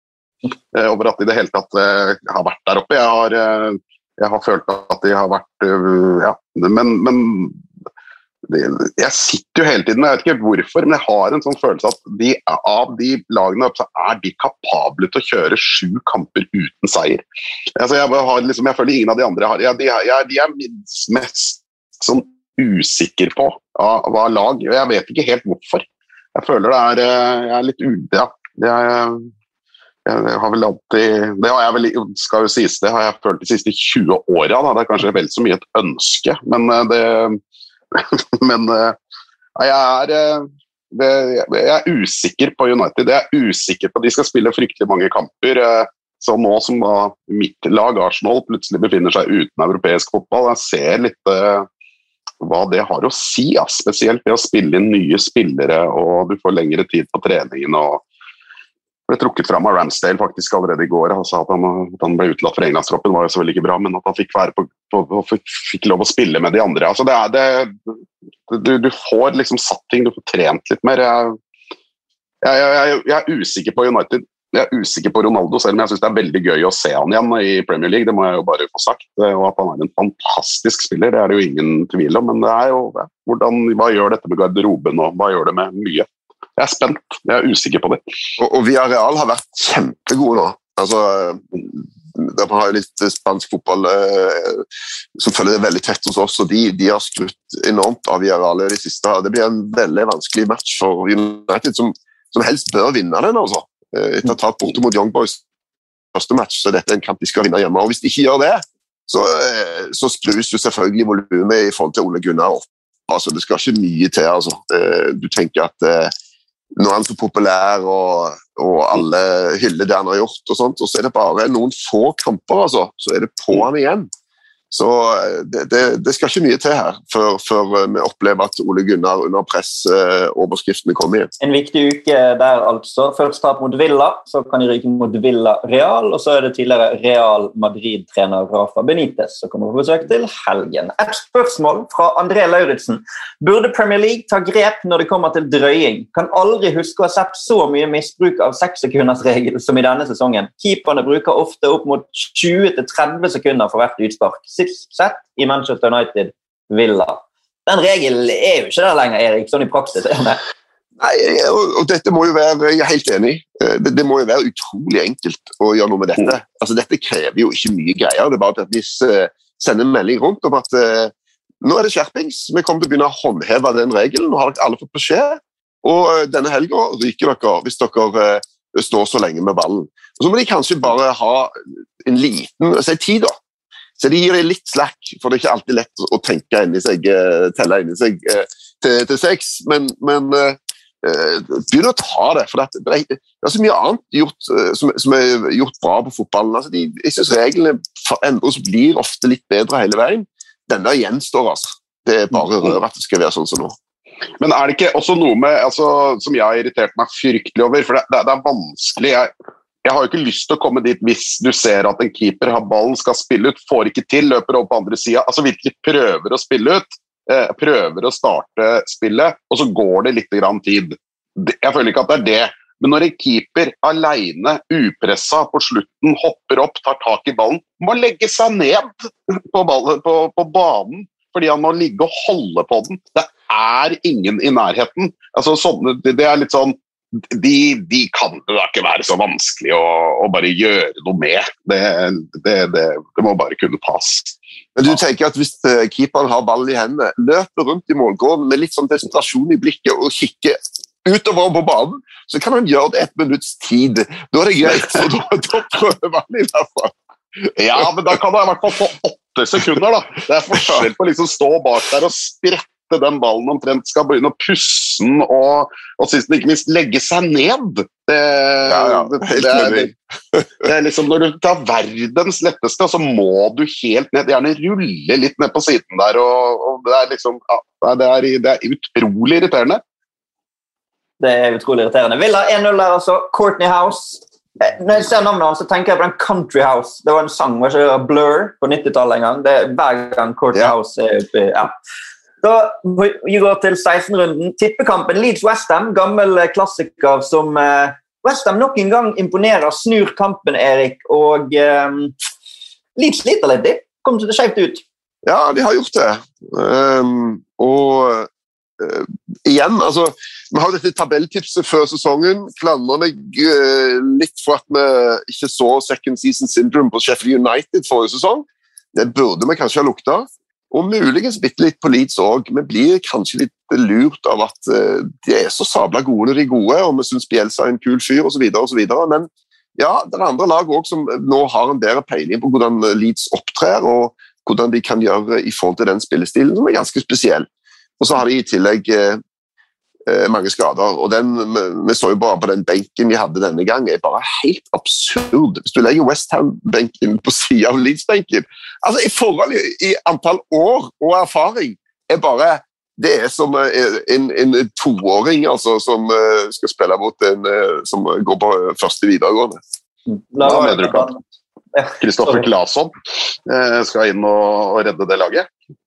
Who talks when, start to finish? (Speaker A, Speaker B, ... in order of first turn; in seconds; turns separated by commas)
Speaker A: 0.7-7.6, Speaker A: 8.5-17.2, Speaker A: 17.8-29.3, Speaker A: 30.1-37.4, Speaker A: 37.9-39.0, Speaker A: 39.6-51.7, Speaker A: 52.4-58.0, Speaker A: 59.1-68.0, Speaker A: 68.5-71.4, Speaker A: 72.4-88.0, Speaker B: 88.4-94.6, Speaker B: 95.2-105.4, Speaker B: 106.1-116.1, Speaker B: 116.8-124.1, Speaker B: 124.7-131.3, Speaker C: 131.4-160.4, Speaker B: 161.0-183.4, Speaker B: 184.0-203.8, Speaker A: 204.4-209.3, Speaker A: 209.8-244.4, Speaker B: 244.8-256.9, Speaker A: 257.6-269.9, Speaker B: 268.6-270.5, Speaker A: 270.6-279.8, Speaker C: 281.2-291.7, Speaker C: 292.4-302.1, Speaker C: 303.0-304.8, Speaker B: 305.2-337.5, Speaker B: 338.0-339.2, Speaker B: 340.1-359.6, Speaker C: 360.1-361.2, Speaker A: 360.4-361.1, Speaker C: 361.7-362.4, Speaker A: 362.0-362.9, Speaker A: 363.5-365.5